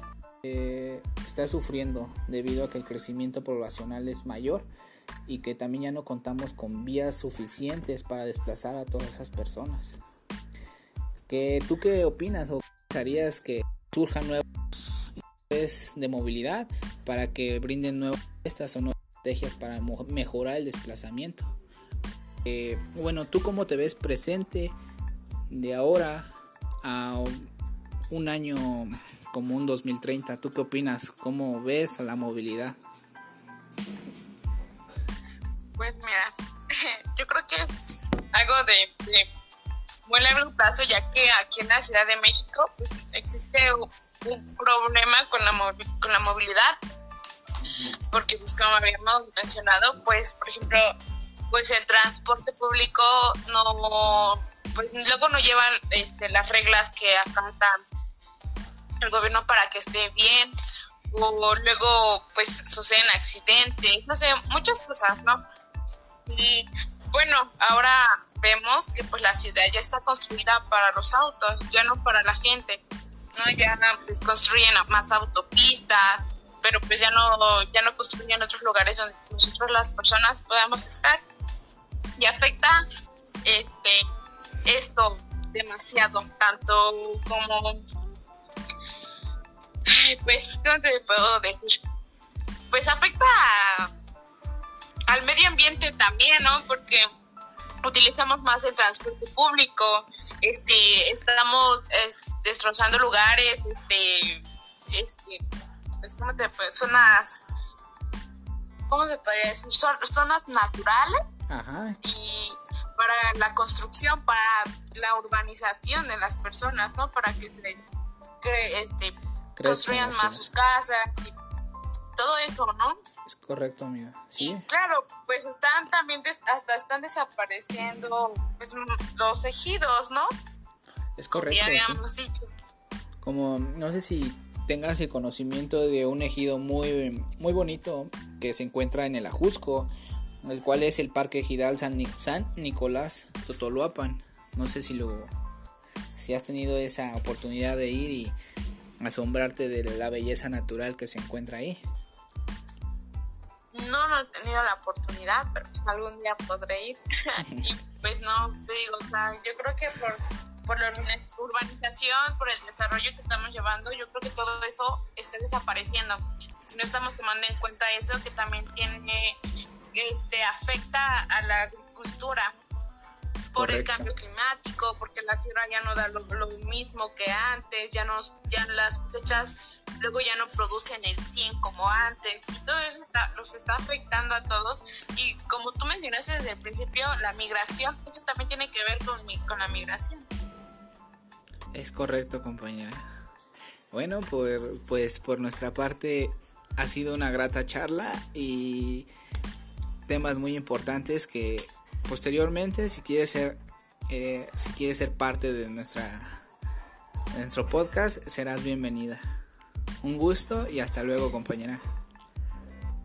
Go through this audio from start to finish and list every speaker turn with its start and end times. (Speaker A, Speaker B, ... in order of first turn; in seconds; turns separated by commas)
Speaker A: 0.4-4.7, Speaker A: 5.3-10.0, Speaker A: 11.3-21.5, Speaker A: 22.4-24.8, Speaker A: 25.5-26.3, Speaker A: 26.8-27.5, Speaker A: 28.1-32.8, Speaker B: 35.8-37.8, Speaker B: 38.3-39.3, Speaker B: 40.1-46.8, Speaker B: 48.1-50.9, Speaker B: 51.5-57.8, Speaker B: 59.0-60.5, Speaker B: 61.1-65.4, Speaker B: 66.3-72.8, Speaker B: 73.3-81.2, Speaker B: 82.2-82.8, Speaker B: 83.4-84.1, Speaker B: 84.7-87.9, Speaker B: 89.9-91.8, Speaker B: 92.7-93.9, Speaker B: 95.1-97.1, Speaker B: 97.8-105.4, Speaker B: 106.0-107.4, Speaker B: 108.9-111.2, Speaker A: 111.5-112.0, Speaker B: 112.0-117.8, Speaker B: 118.4-121.3, Speaker A: 119.6-120.4, Speaker B: 122.2-123.0, Speaker A: 123.3-124.7, Speaker B: 124.4-130.3, Speaker A: 131.2-132.0, Speaker B: 131.3-132.5, Speaker A: 133.2-139.9, Speaker A: 140.4-145.3, Speaker A: 146.2-148.4, Speaker A: 149.0-151.8, Speaker B: 153.7-169.4, Speaker B: 169.9-172.6, Speaker A: 173.5-174.1, Speaker B: 173.6-190.3, Speaker A: 191.7-193.0, Speaker A: 193.9-199.1, Speaker A: 200.1-203.6, Speaker A: 204.1-206.3, Speaker A: 207.3-209.2, Speaker A: 210.0-211.8